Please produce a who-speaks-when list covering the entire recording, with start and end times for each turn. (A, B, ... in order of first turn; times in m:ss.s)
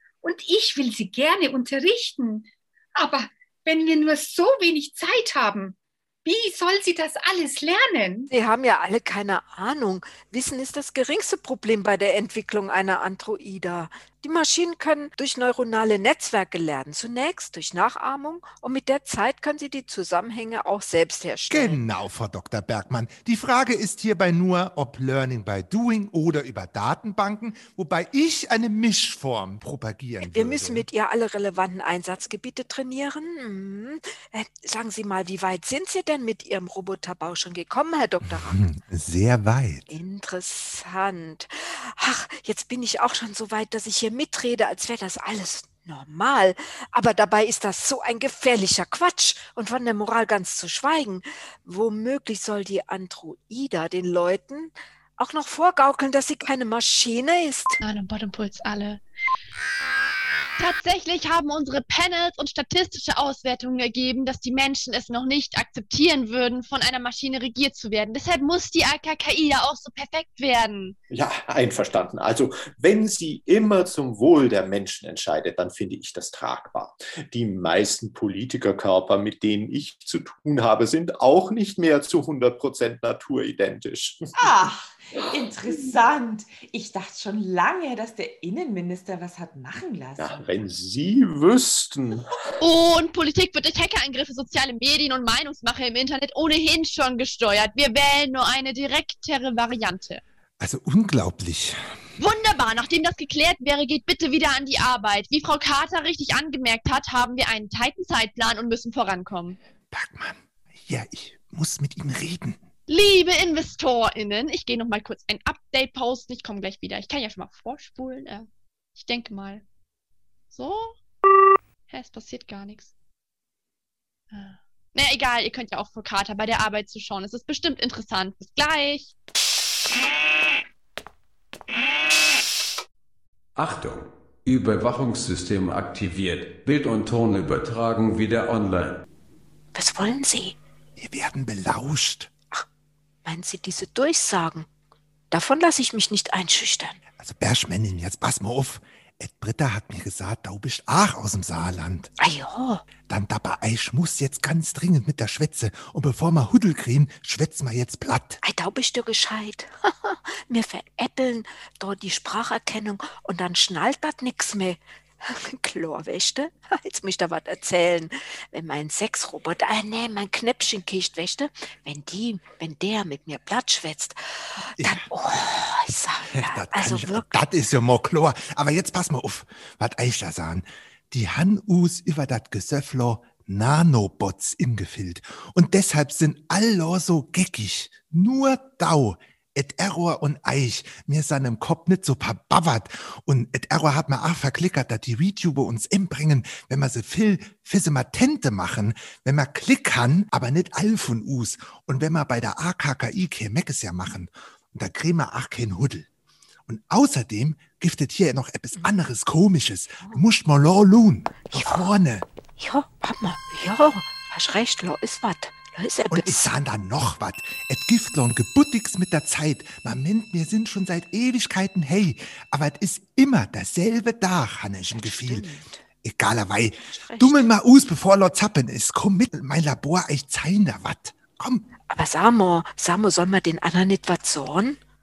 0:00.2-0:08.3 A
0:08.3-0:21.8 B
0:21.5-0:30.9 C
0:30.2-0:38.5 B
0:38.3-0:39.9 C
0:39.9-0:57.8 B
0:57.8-0:59.0 D
1:00.6-1:11.0 D
1:11.1-1:24.7 E
1:24.4-1:30.4 F
1:30.2-1:32.4 E
1:32.6-1:40.2 D
1:40.6-1:41.8 C
1:42.2-1:49.6 D
1:49.9-1:52.6 C
1:52.9-1:59.6 D
2:00.5-2:01.0 D
2:01.9-2:02.9 D
2:04.3-2:09.1 D
2:13.6-2:19.0 G
2:19.7-2:20.6 B
2:21.0-2:22.3 C
2:23.2-2:24.7 B
2:25.3-2:27.0 B
2:27.2-2:32.1 C
2:32.2-2:32.8 B
2:33.1-2:38.4 C
2:38.4-2:57.4 B
2:54.8-2:55.1 C
2:56.4-3:26.1 C
3:26.7-3:32.2 C
3:31.5-3:31.9 B
3:32.6-3:36.5 B
3:36.1-3:45.5 C
3:45.0-3:45.8 B
3:46.0-3:51.6 C
3:46.9-3:47.5 B
3:51.9-3:54.8 B